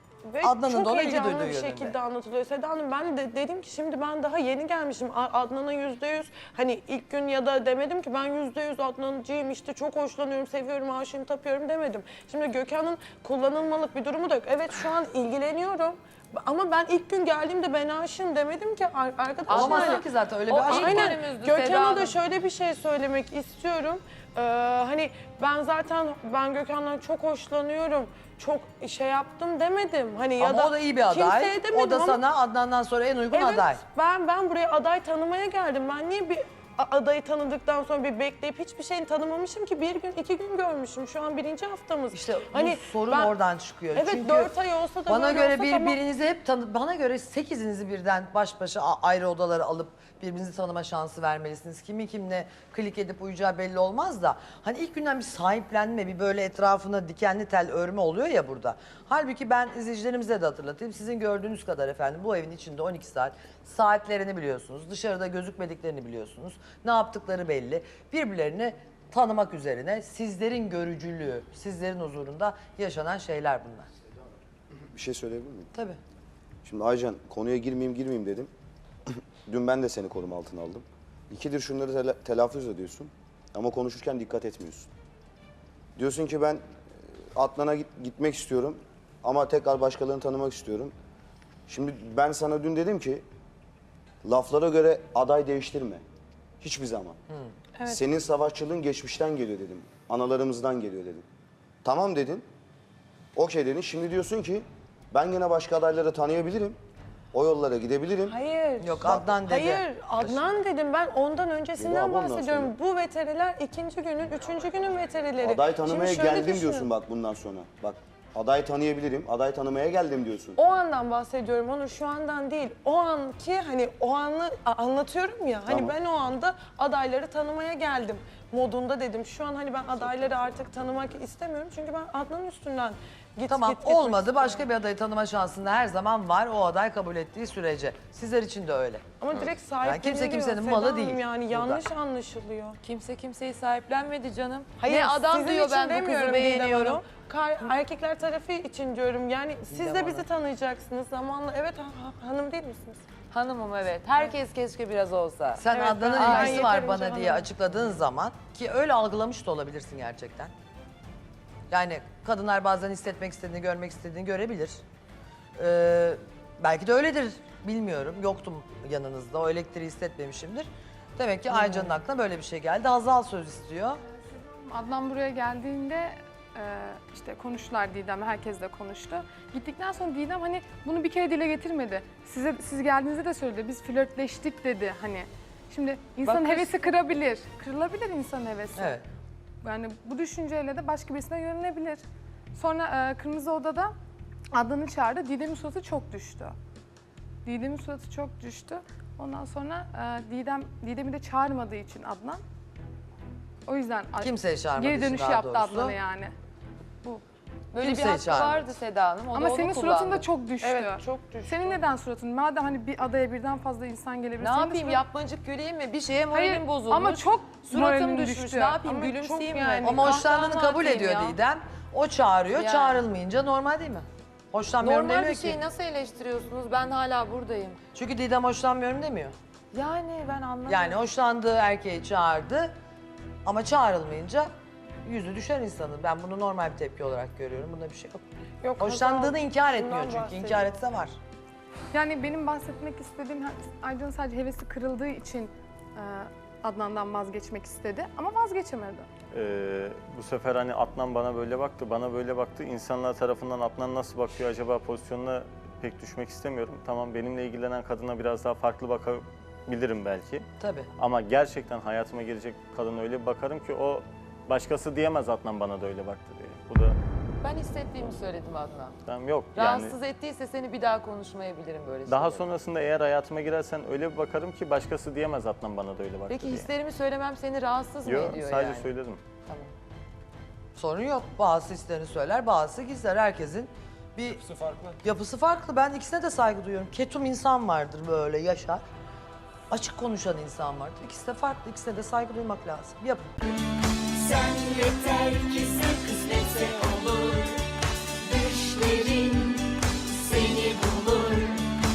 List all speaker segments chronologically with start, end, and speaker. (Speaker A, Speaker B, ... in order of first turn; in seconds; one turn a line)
Speaker A: 0.2-32.2
Speaker B: 0.4-1.9
Speaker C: 19.4-22.2
Speaker B: 19.5-21.1
Speaker B: 30.4-33.8
Speaker A: 33.3-43.4
Speaker B: 42.1-44.5
Speaker A: 43.9-46.0
Speaker B: 45.1-73.9
Speaker D: 74.9-75.7
Speaker D: 76.6-78.5
Speaker D: 79.1-84.9
Speaker D: 86.0-90.9
Speaker D: 91.7-93.2
Speaker D: 94.2-96.0
Speaker D: 96.6-97.2
Speaker A: 97.8-98.0
Speaker D: 97.9-101.2
Speaker D: 101.8-102.5
Speaker D: 103.3-106.8
Speaker D: 107.3-108.3
Speaker A: 108.3-116.9
Speaker B: 108.8-109.8
Speaker D: 109.0-109.3
Speaker D: 111.8-112.7
Speaker D: 115.4-120.6
Speaker A: 120.6-134.7
Speaker D: 125.7-125.9
Speaker B: 133.5-139.0
Speaker A: 139.2-142.8
Speaker B: 139.8-141.8
Speaker C: 142.8-147.1
Speaker A: 144.8-153.0
Speaker B: 149.7-150.2
Speaker C: 153.3-156.8
Speaker B: 155.6-160.5
Speaker A: 155.7-157.6
Speaker B: 161.7-164.8
Speaker B: 165.6-174.0
Speaker E: 171.6-171.9
Speaker E: 174.2-189.0
Speaker C: 186.2-186.7
Speaker B: 188.7-189.0
Speaker E: 189.6-192.0
Speaker E: 192.5-193.9
Speaker E: 194.5-196.5
Speaker E: 197.4-202.4
Speaker E: 203.7-206.3
Speaker B: 204.2-205.9
Speaker C: 207.7-210.3
Speaker B: 207.8-208.6
Speaker E: 209.3-215.0
Speaker A: 210.6-211.8
Speaker C: 214.4-221.4
Speaker E: 216.3-218.8
Speaker A: 218.8-220.1
Speaker B: 219.8-225.6
Speaker C: 222.5-223.0
Speaker C: 224.8-227.8
Speaker B: 227.9-229.3
Speaker C: 229.7-231.0
Speaker B: 230.7-232.7
Speaker B: 233.4-234.5
Speaker B: 235.0-238.2
Speaker A: 238.6-240.7
Speaker B: 238.8-241.2
Speaker E: 241.9-249.1
Speaker F: 249.3-267.0
Speaker B: 260.6-260.9
Speaker C: 267.4-269.0
Speaker F: 269.1-270.0
Speaker C: 269.5-272.5
Speaker F: 272.1-276.7
Speaker C: 276.3-278.9
Speaker F: 278.0-279.2
Speaker C: 279.4-279.7
Speaker B: 280.7-284.4
Speaker B: 285.0-288.8
Speaker B: 289.7-293.3
Speaker G: 294.2-297.6
Speaker G: 298.2-299.6
Speaker G: 300.2-301.6